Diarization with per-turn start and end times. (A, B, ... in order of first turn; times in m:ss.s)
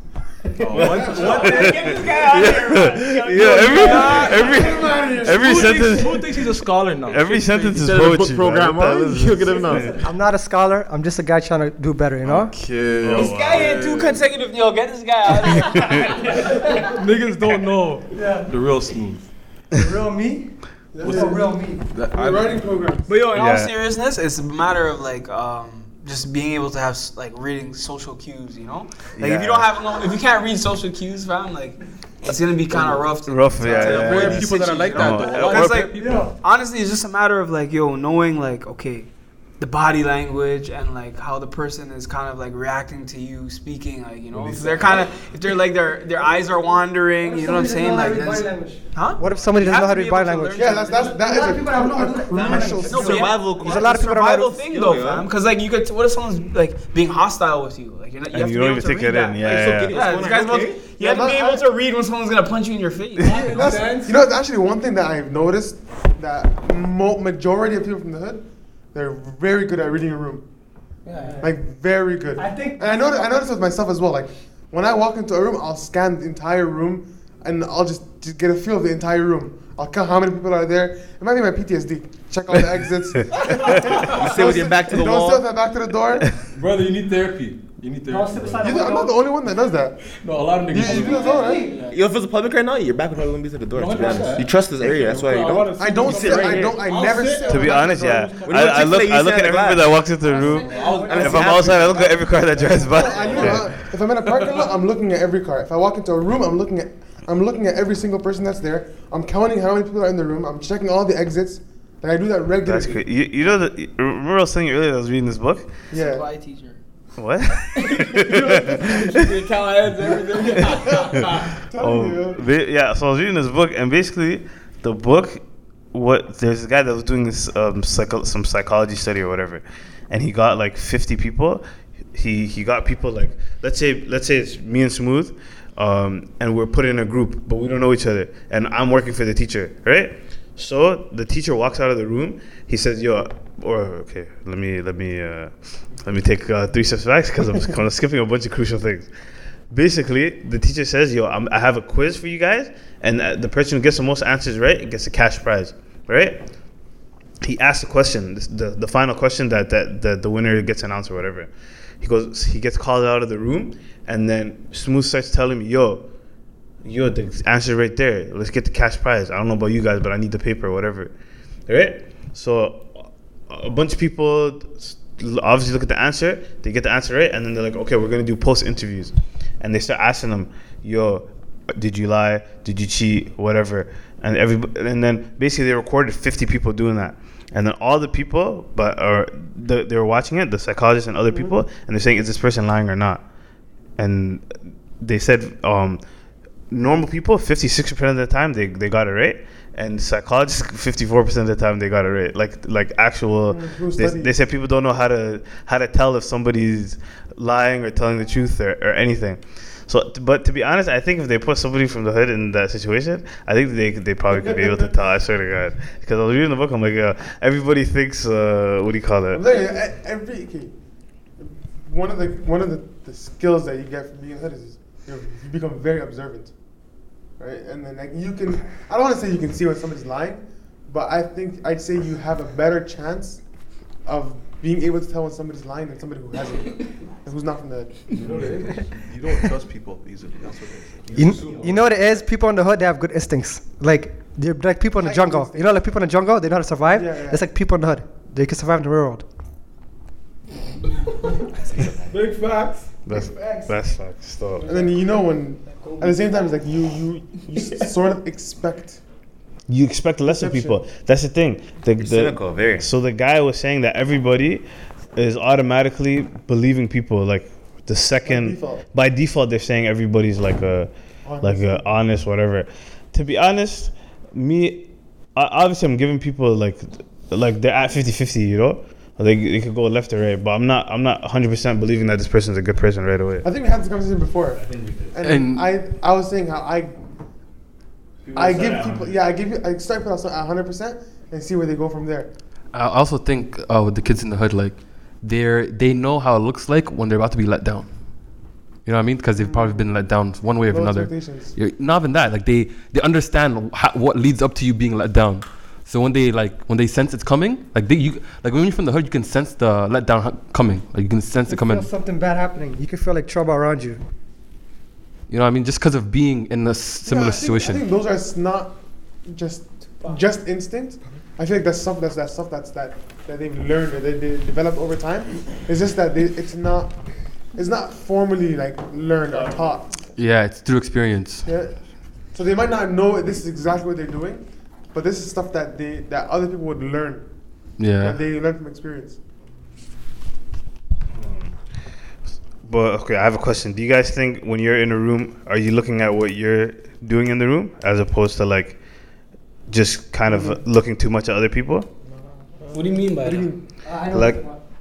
0:00.6-0:02.1 A
0:00.7-0:09.9 B
0:00.8-0:04.5 C
0:00.8-0:01.3 D
0:03.4-0:04.7 A
0:04.4-0:05.8 D
0:05.2-0:07.8 A
0:07.8-0:10.0 E
0:09.8-0:12.5 F
0:12.2-0:14.2 A
0:13.0-0:13.8 B
0:13.1-0:16.9 C
0:15.4-0:16.2 B
0:16.2-0:19.2 A
0:16.5-0:16.8 F
0:18.1-0:18.5 F
0:19.7-0:20.5 F
0:20.9-0:21.5 D
0:21.0-0:21.8 F
0:21.0-0:21.3 A
0:21.9-0:22.6 A
0:22.1-0:23.1 D
0:23.0-0:51.3 C
0:23.3-0:23.7 B
0:29.2-0:29.6 B
0:33.2-0:35.9 B
0:33.6-0:36.3 A
0:36.0-0:36.3 F
0:44.3-0:45.1 E
0:47.2-0:54.6 F
0:50.6-0:53.4 D
0:52.3-0:55.3 E
0:52.8-1:03.6 C
0:58.3-1:00.0 B
0:59.4-1:00.9 E
1:01.0-1:01.6 D
1:03.2-1:04.2 F
1:03.3-1:10.4 D
1:11.0-1:11.4 C
1:11.0-1:11.5 F
1:11.4-1:26.4 D
1:12.4-1:13.4 F
1:23.8-1:25.4 E
1:26.5-1:28.7 A
1:28.1-1:29.2 F
1:28.6-1:30.0 D
1:30.2-1:31.4 A
1:30.7-1:31.7 D
1:30.8-1:31.8 F
1:30.9-1:32.0 C
1:31.9-1:36.8 E
1:33.7-1:39.0 A
1:35.8-1:38.4 D
1:37.5-1:43.7 B
1:38.4-1:40.1 E
1:40.2-1:41.7 F
1:40.3-1:44.7 A
1:40.9-1:42.1 E
1:42.6-1:43.0 F
1:42.9-1:53.0 D
1:52.6-1:55.7 B
1:55.9-1:56.3 D
1:55.9-1:56.8 C
1:57.2-1:59.4 B
1:57.7-2:01.6 C
2:00.5-2:05.4 B
2:00.6-2:02.4 D
2:05.9-2:11.6 B
2:12.1-2:29.1 B
2:29.7-2:36.4 B
2:37.4-2:41.5 B
2:42.0-2:46.0 B
2:46.8-2:51.1 B
2:51.7-3:13.2 B
3:14.0-3:16.0 B
3:16.7-3:39.4 B
3:23.5-3:24.3 D
3:34.3-3:34.9 D
3:39.3-3:40.7 D
3:41.4-3:46.5 D
3:47.4-3:53.4 D
3:54.0-3:58.2 D
3:58.1-4:02.1 A
4:01.1-4:09.2 F
4:05.0-4:05.8 D
4:06.9-4:07.4 D
4:13.0-4:14.7 B
4:13.1-4:13.7 F
4:14.6-4:19.0 D
4:15.7-4:16.6 C
4:19.7-4:43.5 B
4:20.2-4:20.8 D
4:22.0-4:22.9 E
4:28.2-4:28.8 D
4:31.2-4:31.9 D
4:43.4-4:46.9 D
4:44.7-4:45.1 B
4:45.2-4:45.7 G
4:48.3-4:49.0 B
4:48.3-4:52.3 D
4:52.7-4:57.9 G
4:58.8-5:11.9 G
4:59.4-4:59.9 D
5:00.6-5:01.5 D
5:11.5-5:14.0 F
5:15.3-5:17.8 G
5:17.0-5:27.0 D
5:27.5-5:30.0 D
5:30.1-5:31.4 G
5:31.4-5:31.8 D
5:32.3-5:37.2 D
5:37.8-5:38.2 G
5:37.9-5:39.2 D
5:41.1-5:41.5 B
5:42.6-5:48.8 B
5:49.7-5:51.9 B
5:50.3-5:50.6 D
5:52.6-5:53.6 D
5:52.7-5:53.5 C
5:53.8-5:54.6 F
5:54.1-5:54.4 B